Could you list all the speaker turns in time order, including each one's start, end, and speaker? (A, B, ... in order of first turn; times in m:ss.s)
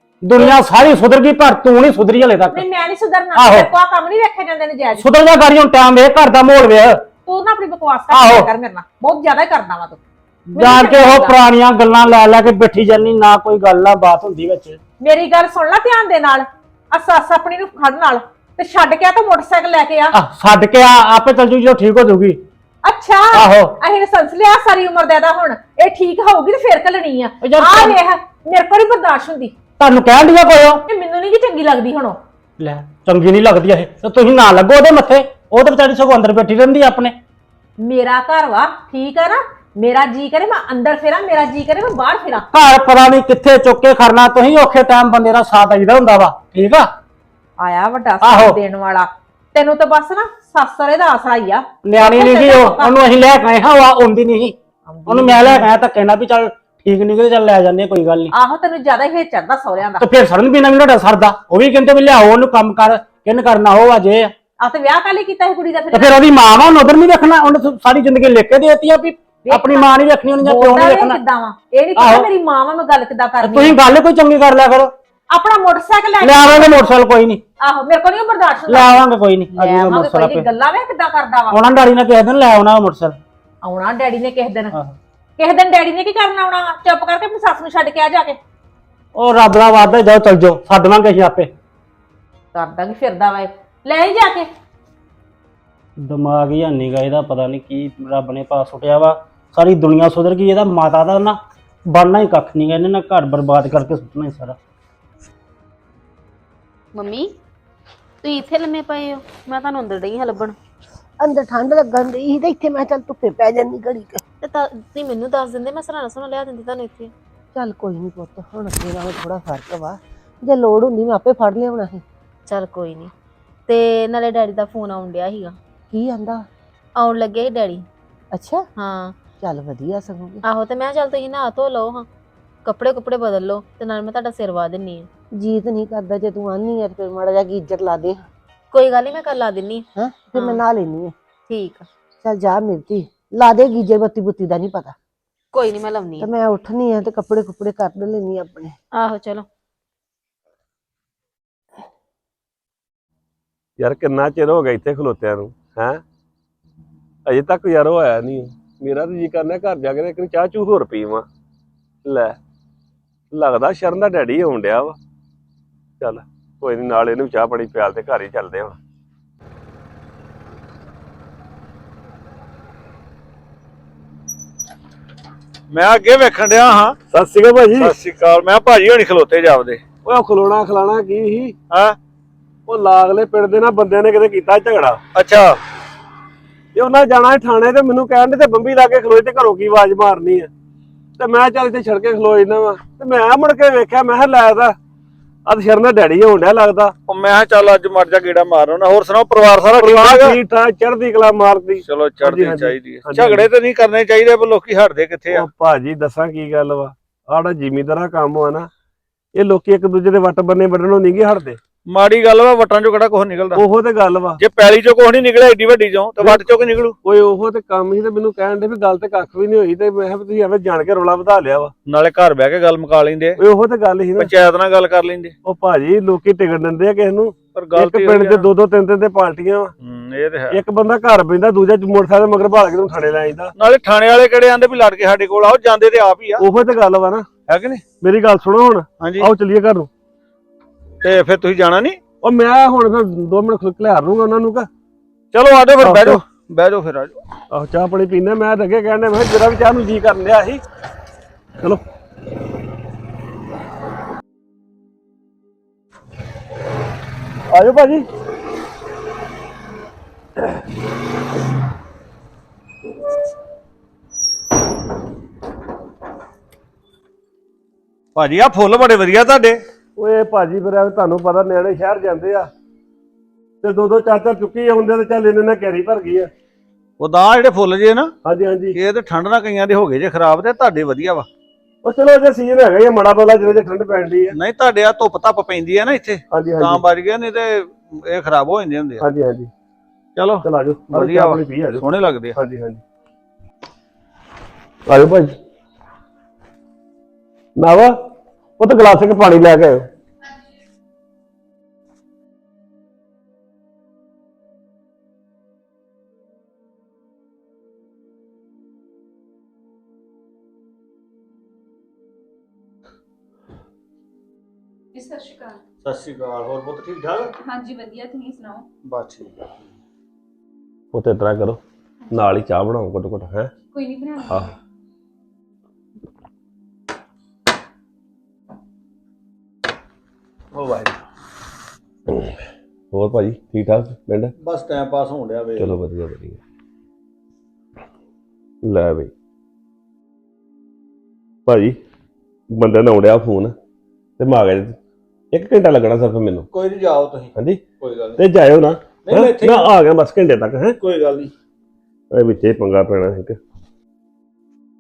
0:00.2-0:02.6 A
0:00.4-0:00.6 B
0:02.5-0:05.1 B
0:03.3-0:03.7 A
0:05.0-0:07.0 A
0:07.2-0:11.4 B
0:08.1-0:08.5 A
0:10.6-0:14.8 A
0:15.0-0:20.2 B
0:20.1-0:22.4 A
0:22.8-0:29.5 B
0:23.3-0:23.7 A
0:27.4-0:28.0 A
0:29.8-0:30.8 A
0:30.9-0:32.2 B
0:32.6-0:37.2 A
0:37.8-0:42.5 B
0:42.5-0:46.9 A
0:47.6-0:53.0 B
0:48.2-0:48.6 A
0:51.8-0:58.3 A
0:55.0-0:55.7 B
0:58.3-1:00.1 B
1:00.0-1:04.3 A
1:04.6-1:06.4 B
1:05.9-1:11.2 A
1:09.4-1:13.8 B
1:12.0-1:12.3 A
1:13.4-1:14.9 A
1:15.3-1:16.9 B
1:16.2-1:17.4 A
1:17.6-1:21.6 B
1:18.7-1:20.5 A
1:21.5-1:23.2 A
1:23.6-1:24.8 B
1:25.4-1:28.4 B
1:29.2-1:31.5 A
1:32.9-1:34.5 B
1:36.0-1:44.6 A
1:46.9-1:47.4 C
1:48.2-1:50.6 C
1:51.2-1:54.2 D
1:54.4-1:57.1 C
1:57.5-2:02.0 D
2:02.5-2:03.1 C
2:03.7-2:05.6 C
2:05.9-2:06.4 D
2:07.0-2:07.9 C
2:08.3-2:08.6 D
2:08.8-2:09.2 C
2:09.4-2:10.4 D
2:10.4-2:12.1 C
2:12.6-2:15.1 C
2:15.4-2:18.2 D
2:18.7-2:20.6 C
2:20.0-2:21.1 D
2:21.5-2:21.9 C
2:22.2-2:25.0 D
2:25.5-2:26.3 C
2:26.2-2:28.8 D
2:28.9-2:29.5 C
2:33.8-2:36.0 E
2:37.3-2:41.2 E
2:42.0-2:42.4 E
2:43.3-2:45.0 E
2:46.0-2:48.8 E
2:55.7-2:57.0 F
2:57.1-2:58.0 E
2:57.8-2:59.8 F
3:00.0-3:01.6 E
3:01.7-3:02.0 F
3:02.7-3:05.0 E
3:05.2-3:05.6 F
3:06.8-3:10.5 E
3:11.2-3:14.8 E
3:15.5-3:16.9 E
3:17.1-3:20.4 F
3:19.8-3:23.5 E
3:21.8-3:25.5 F
3:25.3-3:28.7 E
3:29.3-3:31.6 E
3:31.9-3:33.6 F
3:33.6-3:34.4 E
3:34.4-3:37.0 F
3:36.2-3:41.7 E
3:41.9-3:43.4 F
3:43.4-3:44.3 E
3:44.2-3:45.4 F
3:45.4-3:49.7 E
3:47.6-3:48.5 F
3:49.8-3:50.6 F
3:50.5-3:53.5 E
3:53.6-3:56.5 F
3:56.4-3:57.3 E
3:57.5-3:57.9 F
3:58.0-3:59.9 E
3:59.0-3:59.3 F
4:01.0-4:02.0 F
4:02.2-4:04.7 E
4:05.3-4:07.2 F
4:05.8-4:06.2 E
4:07.5-4:10.6 E
4:17.5-4:18.0 E
4:28.2-4:29.6 F
4:30.0-4:32.5 E
4:33.6-4:36.3 E
4:37.0-4:38.2 F
4:38.2-4:38.8 E
4:38.7-4:41.3 F
4:41.8-4:44.4 E
4:44.3-4:49.1 F
4:46.3-4:46.8 E
4:49.0-4:49.5 E
4:50.2-4:52.4 F
4:50.4-4:52.8 E
4:54.9-4:55.4 E
4:57.6-4:58.0 E
4:58.6-4:59.9 E
5:14.9-5:15.6 G
5:15.8-5:17.4 F
5:17.4-5:18.7 G
5:18.8-5:19.4 F
5:20.9-5:23.5 E
5:23.7-5:24.5 G
5:24.3-5:24.5 E
5:30.5-5:31.0 F
5:32.9-5:34.3 E
5:34.4-5:35.8 F
5:35.6-5:36.4 E
5:38.6-5:39.1 E
5:41.5-5:41.8 E
5:42.5-5:43.6 E
5:44.2-5:44.8 E
5:45.3-5:46.5 E
5:46.5-5:48.2 F
5:47.4-5:50.8 E
5:49.0-5:49.8 F
5:50.8-5:51.3 F
5:52.1-5:53.4 E